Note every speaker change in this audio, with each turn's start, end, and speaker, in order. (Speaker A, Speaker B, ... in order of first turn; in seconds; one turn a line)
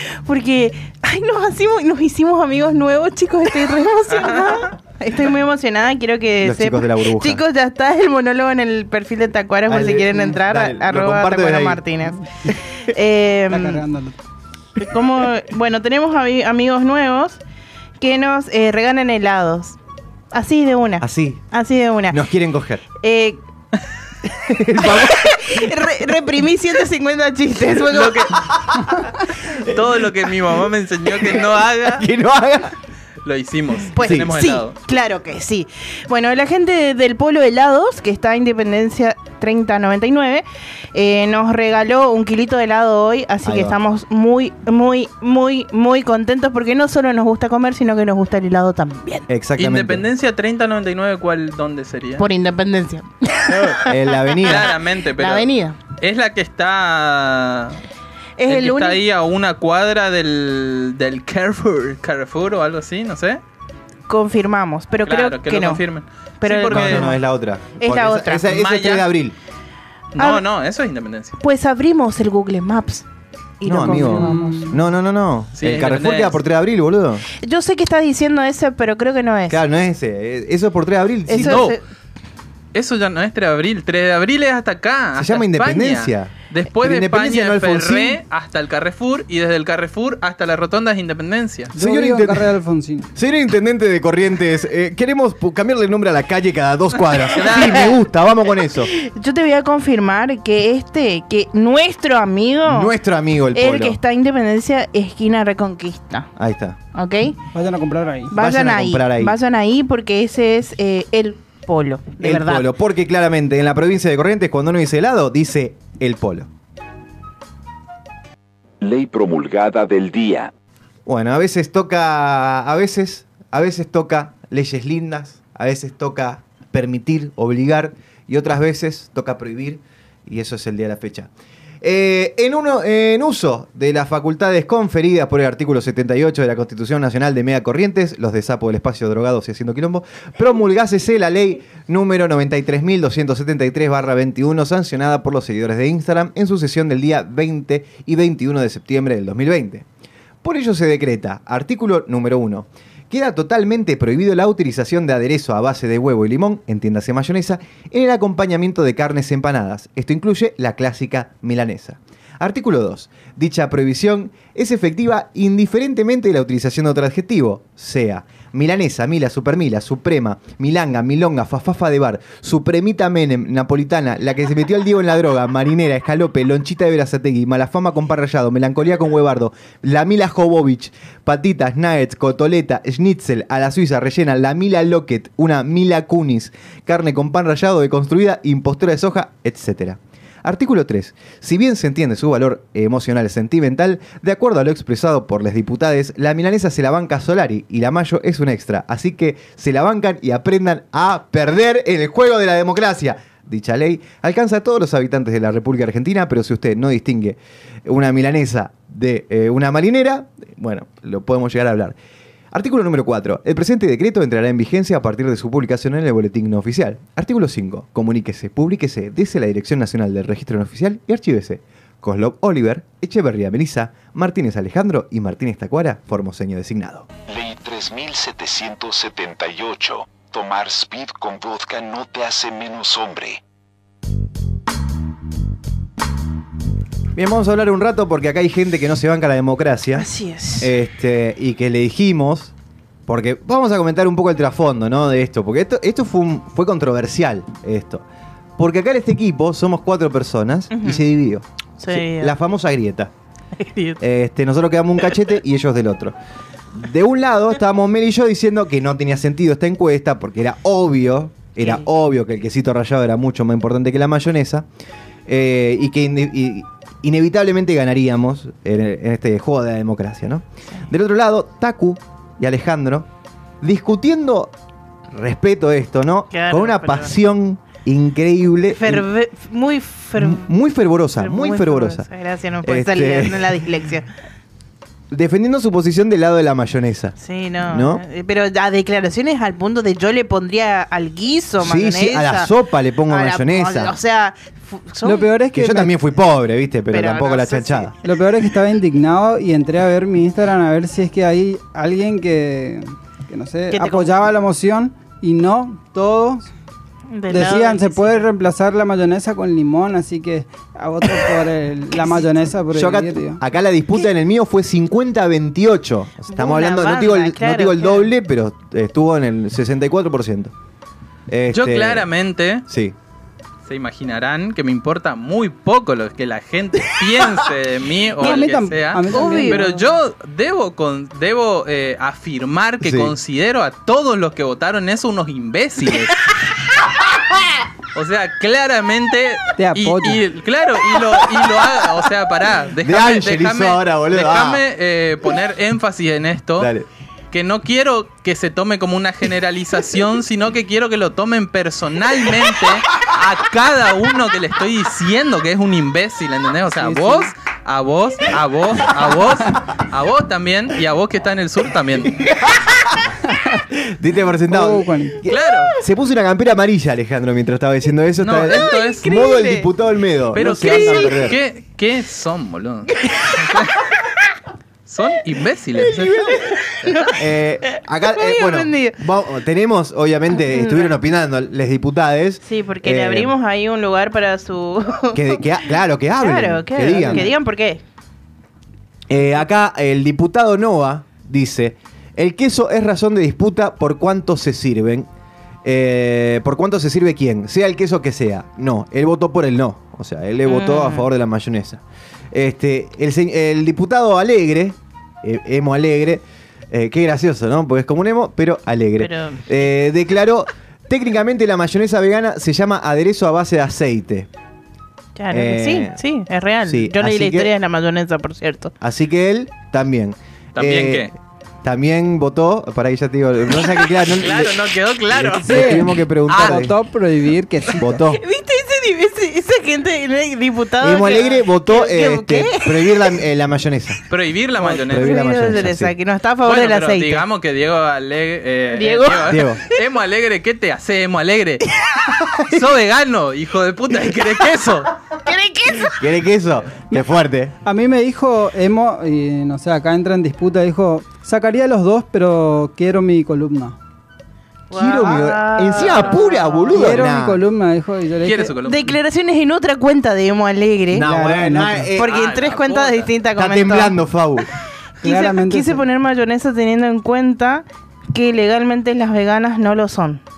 Speaker A: 0.2-13.8
Speaker B: 4.1-4.6
Speaker C: 6.4-7.4
Speaker C: 9.7-11.8
Speaker D: 13.5-14.2
Speaker A: 14.8-17.4
Speaker A: 18.0-19.8
Speaker A: 20.3-22.2
Speaker C: 21.0-21.4
Speaker C: 22.1-22.8
Speaker A: 23.0-23.4
Speaker C: 24.3-25.8
Speaker A: 24.8-28.3
Speaker B: 27.9-28.5
Speaker C: 28.4-29.8
Speaker B: 29.4-32.1
Speaker C: 31.2-32.7
Speaker B: 33.2-34.8
Speaker A: 33.9-49.2
Speaker C: 34.0-34.3
Speaker C: 43.4-43.8
Speaker C: 49.3-50.0
Speaker B: 49.6-52.2
Speaker A: 52.2-55.8
Speaker C: 53.8-54.7
Speaker B: 54.4-57.8
Speaker A: 58.4-59.0
Speaker B: 58.5-63.4
Speaker A: 64.1-65.8
Speaker B: 65.0-67.1
Speaker A: 66.4-67.2
Speaker C: 66.7-69.3
Speaker A: 67.8-68.5
Speaker B: 68.5-69.1
Speaker B: 70.1-71.4
Speaker A: 70.2-70.4
Speaker A: 71.4-73.0
Speaker A: 73.6-74.7
Speaker C: 73.6-77.2
Speaker D: 73.8-74.8
Speaker B: 75.6-76.4
Speaker A: 77.3-79.6
Speaker C: 79.5-81.7
Speaker A: 81.3-81.8
Speaker B: 81.4-81.8
Speaker B: 82.7-91.7
Speaker C: 85.2-88.2
Speaker D: 91.7-93.1
Speaker C: 91.8-92.5
Speaker C: 93.1-98.9
Speaker B: 97.3-98.0
Speaker A: 98.9-102.9
Speaker C: 102.7-104.0
Speaker A: 103.5-106.3
Speaker C: 106.4-106.8
Speaker A: 106.9-107.4
Speaker D: 107.5-108.3
Speaker A: 108.3-112.7
Speaker C: 108.3-109.3
Speaker C: 112.2-116.5
Speaker E: 118.8-120.5
Speaker C: 121.0-131.3
Speaker C: 131.8-149.8
Speaker C: 150.4-212.0
Speaker C: 212.5-227.1
Speaker E: 227.3-233.4
Speaker C: 237.1-240.1
Speaker A: 239.9-240.7
Speaker C: 240.6-242.5
Speaker C: 243.1-248.0
Speaker C: 248.6-253.1
Speaker A: 250.7-251.0
Speaker A: 251.8-252.3
Speaker A: 253.6-254.0
Speaker C: 254.0-256.1
Speaker C: 256.7-264.7
Speaker A: 261.6-261.9
Speaker C: 265.3-273.1
Speaker C: 273.6-274.5
Speaker C: 275.1-279.1
Speaker A: 276.3-277.1
Speaker A: 278.7-280.5
Speaker C: 280.2-282.1
Speaker A: 281.1-284.1
Speaker C: 282.6-283.6
Speaker C: 285.1-288.0
Speaker A: 287.2-292.5
Speaker C: 291.6-294.0
Speaker A: 293.1-295.3
Speaker D: 295.0-295.9
Speaker C: 295.5-297.9
Speaker A: 296.9-297.9
Speaker D: 298.0-306.5
Speaker A: 303.7-304.1
Speaker A: 307.1-308.2
Speaker D: 307.3-313.4
Speaker C: 312.7-320.5
Speaker A: 316.3-318.1
Speaker C: 321.3-322.1
Speaker B: 321.5-322.6
Speaker C: 322.7-322.9
Speaker B: 323.6-336.2
Speaker D: 328.2-329.7
Speaker A: 328.2-328.5
Speaker A: 329.1-329.8
Speaker C: 332.8-333.1
Speaker B: 337.9-346.7
Speaker D: 339.6-340.2
Speaker C: 342.8-344.6
Speaker C: 346.6-346.9
Speaker B: 347.3-362.2
Speaker D: 356.8-357.3
Speaker C: 362.2-362.8
Speaker D: 363.3-363.6
Speaker C: 363.7-371.4
Speaker D: 364.5-365.2
Speaker B: 365.3-365.7
Speaker B: 368.2-369.1
Speaker A: 368.5-369.7
Speaker B: 370.3-373.8
Speaker A: 370.4-371.3
Speaker A: 373.0-373.4
Speaker B: 374.9-376.3
Speaker A: 376.0-379.0
Speaker C: 377.0-383.3
Speaker A: 380.4-380.9
Speaker A: 382.4-385.6
Speaker C: 385.1-387.3
Speaker A: 386.2-387.8
Speaker D: 387.0-387.3
Speaker C: 389.1-395.1
Speaker C: 395.6-414.3
Speaker A: 400.4-401.1
Speaker A: 409.0-409.4
Speaker A: 415.1-418.7
Speaker C: 415.3-416.0
Speaker C: 416.6-417.5
Speaker C: 418.8-426.7
Speaker B: 420.5-421.1
Speaker B: 424.1-426.7
Speaker D: 425.4-428.0
Speaker C: 427.8-428.2
Speaker A: 428.1-433.2
Speaker C: 430.8-434.0
Speaker B: 434.1-435.3
Speaker C: 434.7-435.9
Speaker A: 434.9-437.2
Speaker B: 436.4-441.7
Speaker A: 438.7-439.4
Speaker C: 439.2-439.6
Speaker B: 442.4-444.9
Speaker A: 445.2-446.0
Speaker C: 445.8-447.5
Speaker D: 447.6-453.8
Speaker A: 454.7-457.0
Speaker C: 454.7-457.4
Speaker D: 456.7-458.6
Speaker B: 458.2-458.9
Speaker A: 458.6-461.1
Speaker C: 460.9-462.1
Speaker D: 461.0-461.9
Speaker A: 461.9-464.0
Speaker B: 462.0-463.1
Speaker C: 463.4-464.5
Speaker A: 465.0-470.2
Speaker D: 465.0-465.8